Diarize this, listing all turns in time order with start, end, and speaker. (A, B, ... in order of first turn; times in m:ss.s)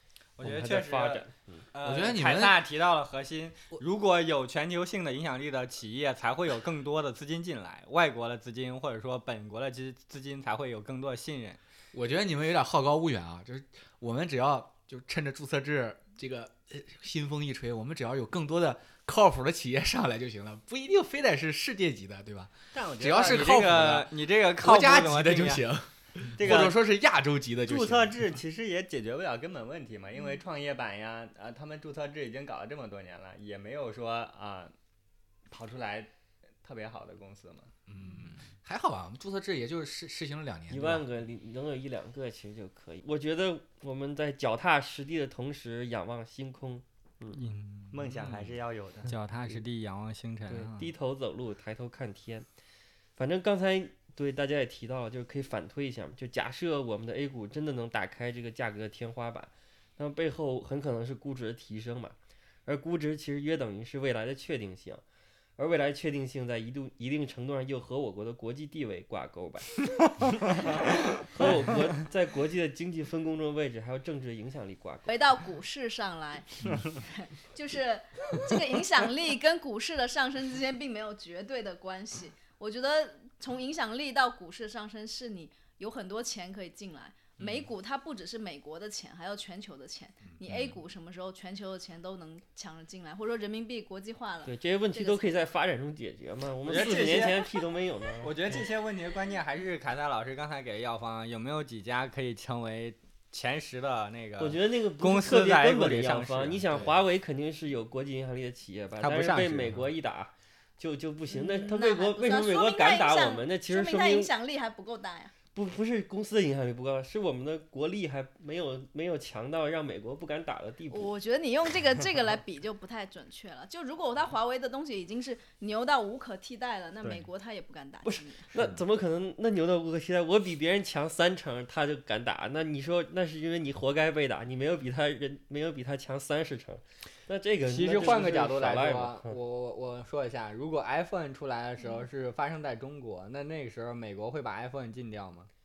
0:00.4-0:11.6 A
0:00.4-0:01.7 B
0:01.8-0:02.6 C
0:11.9-0:28.2 C
0:22.7-0:23.6 D
0:23.2-0:25.6 A
0:26.4-0:26.8 D
0:27.6-0:34.7 D
0:35.5-0:36.1 D
0:36.6-0:37.7 D
0:37.9-0:41.1 C
0:40.7-0:47.4 B
0:47.3-0:48.5 A
0:47.9-0:49.1 D
0:49.1-0:50.8 A
0:50.5-0:52.5 B
0:53.2-1:05.0 B
1:05.6-1:15.1 B
1:15.1-1:35.4 E
1:30.4-1:30.7 C
1:34.4-1:38.6 B
1:36.6-1:37.6 A
1:38.2-1:46.7 A
1:44.4-1:54.3 B
1:49.0-1:49.9 A
1:51.3-1:55.3 E
1:55.5-2:01.1 B
2:00.9-2:08.5 E
2:08.0-2:19.4 B
2:17.6-2:25.5 A